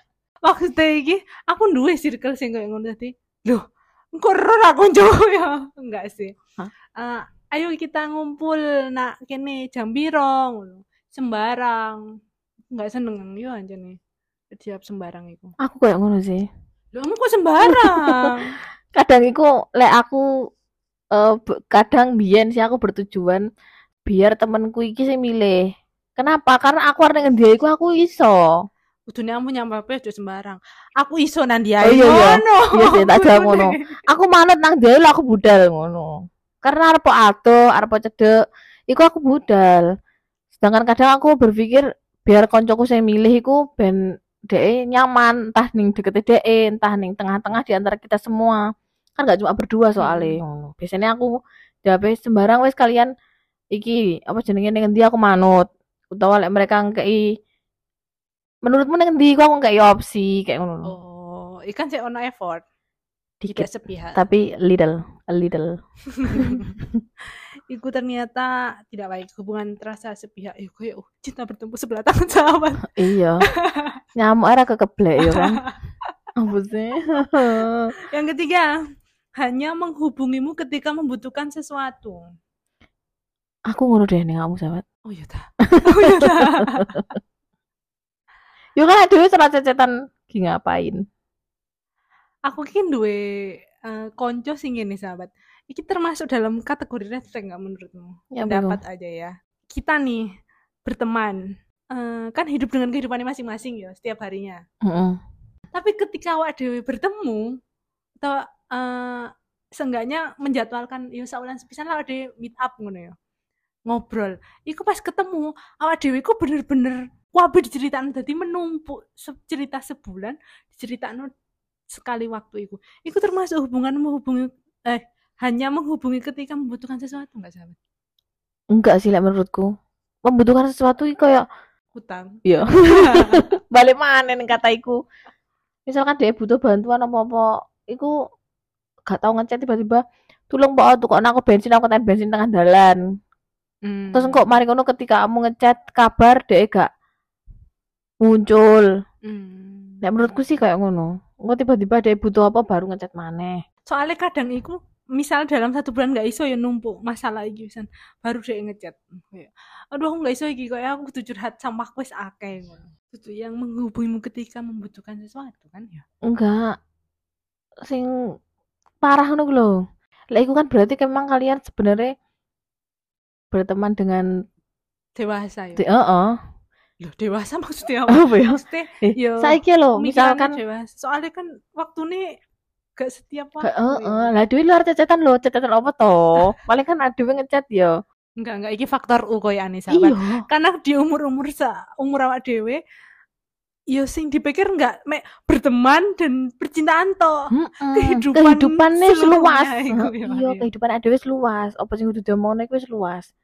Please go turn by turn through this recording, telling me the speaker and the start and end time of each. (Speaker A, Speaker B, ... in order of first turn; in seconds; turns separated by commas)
Speaker A: 0.4-6.4, Speaker A: 7.0-12.0, Speaker A: 12.7-14.0, Speaker A: 14.5-15.5, Speaker B: 15.6-16.5, Speaker A: 16.9-18.6, Speaker B: 17.7-18.3, Speaker B: 18.9-20.2, Speaker B: 21.1-23.4, Speaker B: 24.1-25.6, Speaker B: 26.2-28.5, Speaker A: 29.1-34.0, Speaker B: 31.8-38.3, Speaker B: 38.9-39.8, Speaker B: 40.6-44.0, Speaker B: 44.5-48.6, Speaker B: 49.2-51.3, Speaker A: 50.0-50.4, Speaker B: 51.9-53.1, Speaker B: 53.7-57.2, Speaker B: 58.6-60.9, Speaker A: 60.9-62.6, Speaker B: 63.4-65.8, Speaker A: 63.5-64.2, Speaker A: 66.1-66.8, Speaker B: 66.3-66.6, Speaker A: 67.7-72.9, Speaker B: 73.0-73.4, Speaker A: 73.6-74.0, Speaker B: 74.2-75.6, Speaker A: 75.2-75.8, Speaker B: 76.4-77.9, Speaker A: 78.1-78.8, Speaker A: 79.4-82.3, Speaker B: 83.7-84.8, Speaker A: 85.1-87.0, Speaker B: 85.7-87.0, Speaker B: 88.8-91.0, Speaker A: 92.5-100.3, Speaker B: 98.3-98.8, Speaker A: 100.8-104.6, Speaker B: 104.8-105.2, Speaker A: 105.7-107.6, Speaker A: 108.2-113.2, Speaker A: 113.9-121.3, Speaker A: 121.9-127.8, Speaker B: 128.7-129.7, Speaker B: 130.3-131.4, Speaker A: 131.9-133.4, Speaker B: 132.4-135.0, Speaker B: 135.9-138.1, Speaker B: 139.1-143.0, Speaker A: 143.9-144.4, Speaker B: 144.1-146.9, Speaker B: 148.2-148.8, Speaker A: 149.3-150.4, Speaker B: 150.0-153.6, Speaker A: 153.9-166.1, Speaker B: 166.3-166.8, Speaker B: 167.8-168.1, Speaker B: 169.0-169.8, Speaker B: 170.3-172.1, Speaker B: 173.5-174.2, Speaker A: 175.2-175.8, Speaker B: 175.8-176.4, Speaker A: 177.0-182.3, Speaker B: 178.1-180.6, Speaker A: 183.0-184.3, Speaker B: 183.6-187.9, Speaker A: 188.4-192.8, Speaker B: 189.9-190.4, Speaker A: 193.9-197.4, Speaker B: 197.5-203.3, Speaker A: 197.9-200.7